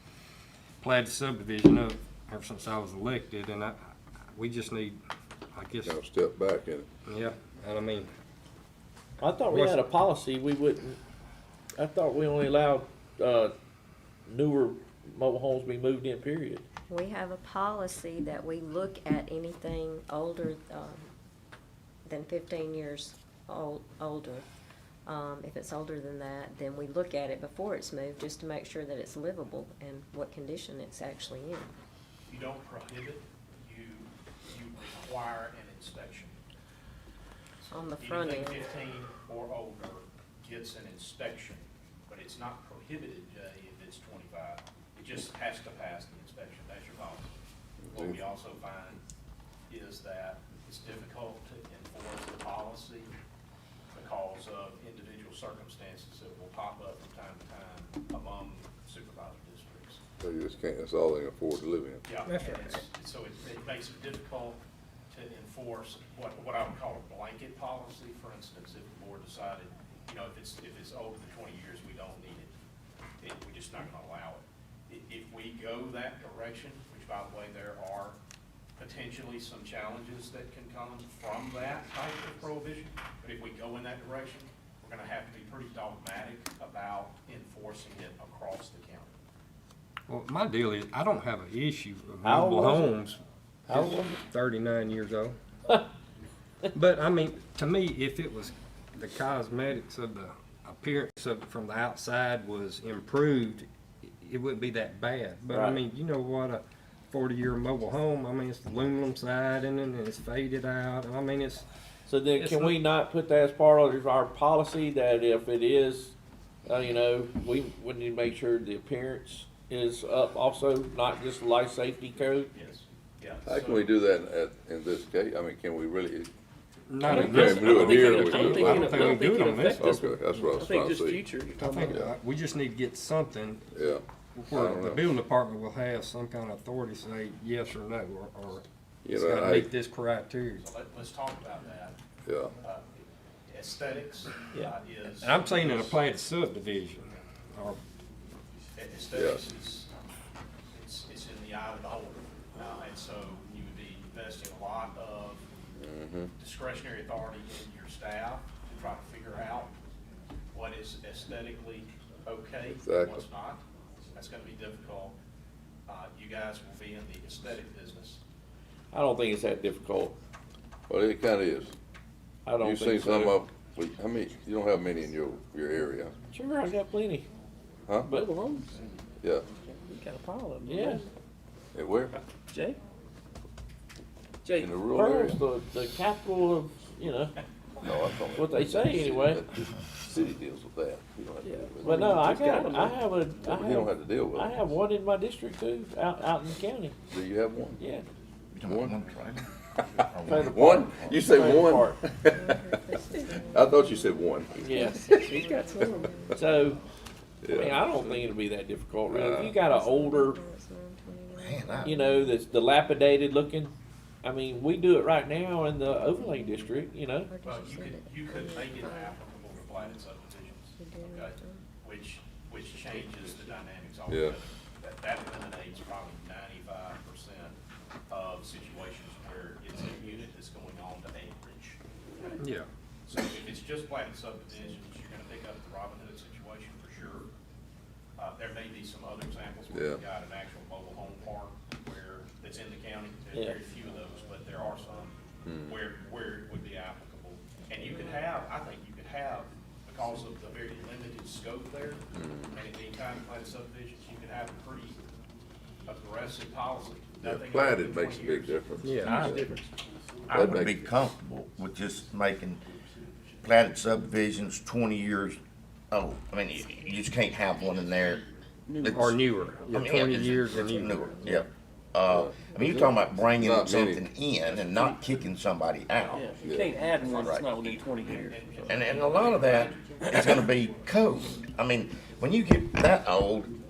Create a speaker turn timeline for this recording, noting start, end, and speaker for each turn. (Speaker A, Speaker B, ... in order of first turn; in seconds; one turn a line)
Speaker A: 0.8-3.8
Speaker A: 4.3-5.0
Speaker A: 5.5-6.0
Speaker B: 5.8-6.9
Speaker A: 7.1-8.1
Speaker C: 9.2-11.0
Speaker A: 9.5-9.8
Speaker C: 11.8-13.5
Speaker C: 14.3-16.7
Speaker D: 16.9-21.1
Speaker D: 22.1-24.5
Speaker D: 25.1-31.7
Speaker E: 32.3-36.4
Speaker E: 37.6-47.3
Speaker D: 37.7-38.7
Speaker B: 47.8-48.2
Speaker E: 47.9-49.0
Speaker E: 49.7-53.1
Speaker E: 53.9-60.0
Speaker B: 60.2-62.0
Speaker E: 62.1-72.5
Speaker A: 62.3-62.8
Speaker E: 73.2-78.2
Speaker E: 78.8-89.1
Speaker A: 90.1-93.2
Speaker C: 92.2-92.9
Speaker C: 93.7-94.2
Speaker A: 93.7-95.4
Speaker A: 96.7-111.7
Speaker C: 105.5-105.8
Speaker C: 112.1-116.2
Speaker A: 112.3-112.8
Speaker C: 116.7-122.5
Speaker E: 122.5-124.0
Speaker B: 123.5-126.3
Speaker A: 126.9-130.1
Speaker B: 127.0-128.9
Speaker F: 127.1-132.0
Speaker B: 129.8-132.1
Speaker A: 131.6-133.7
Speaker B: 133.7-135.1
Speaker A: 134.3-140.7
Speaker B: 139.1-139.7
Speaker E: 140.6-142.0
Speaker B: 142.2-142.5
Speaker E: 142.6-146.0
Speaker A: 145.2-147.8
Speaker E: 148.8-149.9
Speaker B: 149.1-149.4
Speaker E: 150.7-155.5
Speaker B: 155.8-156.3
Speaker E: 156.4-159.7
Speaker E: 160.5-165.2
Speaker B: 162.7-163.2
Speaker E: 165.9-168.2
Speaker C: 168.9-170.2
Speaker B: 170.9-171.8
Speaker C: 172.5-173.4
Speaker B: 172.6-176.1
Speaker C: 176.3-177.3
Speaker B: 177.9-178.1
Speaker F: 178.1-178.8
Speaker F: 179.7-181.1
Speaker C: 180.6-181.1
Speaker B: 181.8-182.2
Speaker F: 182.5-182.8
Speaker F: 184.4-184.7
Speaker B: 184.6-185.4
Speaker C: 184.9-187.3
Speaker B: 187.8-192.9
Speaker C: 188.3-189.4
Speaker F: 191.4-193.0
Speaker C: 191.8-197.0
Speaker B: 193.4-194.6
Speaker B: 197.1-197.8
Speaker C: 197.8-198.1
Speaker G: 198.5-199.5
Speaker B: 198.6-199.0
Speaker B: 199.8-202.8
Speaker G: 200.1-201.2
Speaker C: 200.3-202.0
Speaker D: 202.2-206.8
Speaker B: 203.3-206.4
Speaker C: 204.6-205.0
Speaker F: 204.8-206.1
Speaker C: 206.3-206.8
Speaker B: 207.4-207.9
Speaker C: 207.5-210.4
Speaker B: 209.1-209.6
Speaker D: 209.6-212.4
Speaker G: 211.3-211.9
Speaker C: 211.8-217.3
Speaker D: 216.2-216.5
Speaker D: 217.3-219.2
Speaker E: 217.4-227.6
Speaker D: 220.8-221.7
Speaker B: 224.1-224.4
Speaker E: 228.1-232.4
Speaker A: 232.4-232.7
Speaker E: 233.1-237.3
Speaker E: 238.2-255.0
Speaker B: 239.7-240.0
Speaker B: 245.4-245.8
Speaker D: 247.9-248.2
Speaker B: 252.1-252.6
Speaker E: 255.9-258.6
Speaker B: 257.2-259.5
Speaker A: 258.8-259.2
Speaker F: 259.0-259.6
Speaker G: 260.3-262.6
Speaker B: 260.3-261.0
Speaker G: 263.4-265.4
Speaker G: 265.9-268.2
Speaker F: 268.7-269.3
Speaker G: 268.8-269.1
Speaker A: 268.8-271.5
Speaker G: 269.7-276.4
Speaker B: 272.1-274.0
Speaker E: 276.1-280.4
Speaker F: 276.1-278.5
Speaker B: 276.4-276.8
Speaker G: 277.1-277.6
Speaker G: 278.7-283.5